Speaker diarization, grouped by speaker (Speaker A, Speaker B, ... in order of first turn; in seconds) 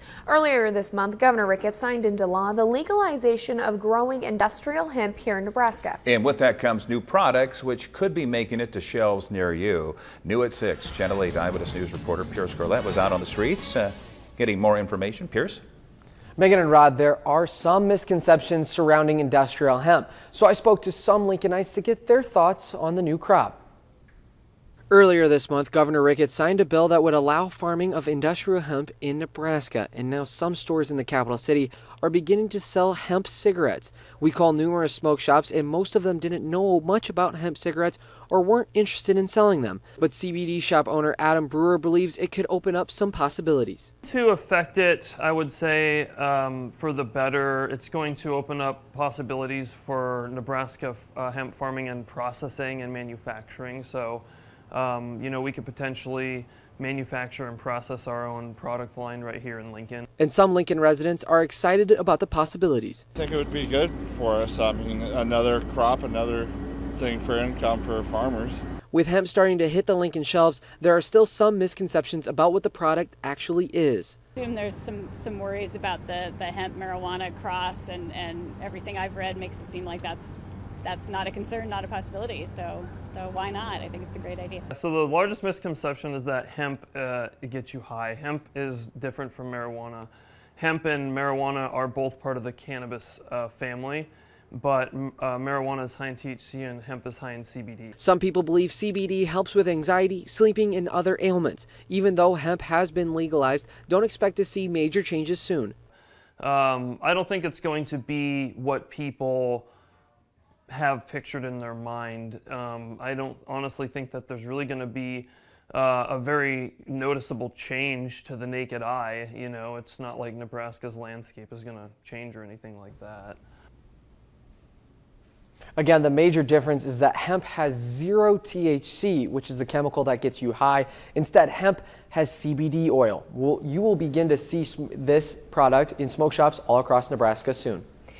Speaker A: 0.2-6.0
Speaker B: 6.0-15.6
Speaker C: 16.4-23.6, 24.9-43.9, 60.2-63.0, 68.9-74.2, 98.0-105.7, 125.8-137.8
Speaker D: 44.0-60.0, 84.7-97.9, 106.4-109.7, 110.7-123.4
Speaker E: 63.2-68.7
Speaker F: 74.4-84.7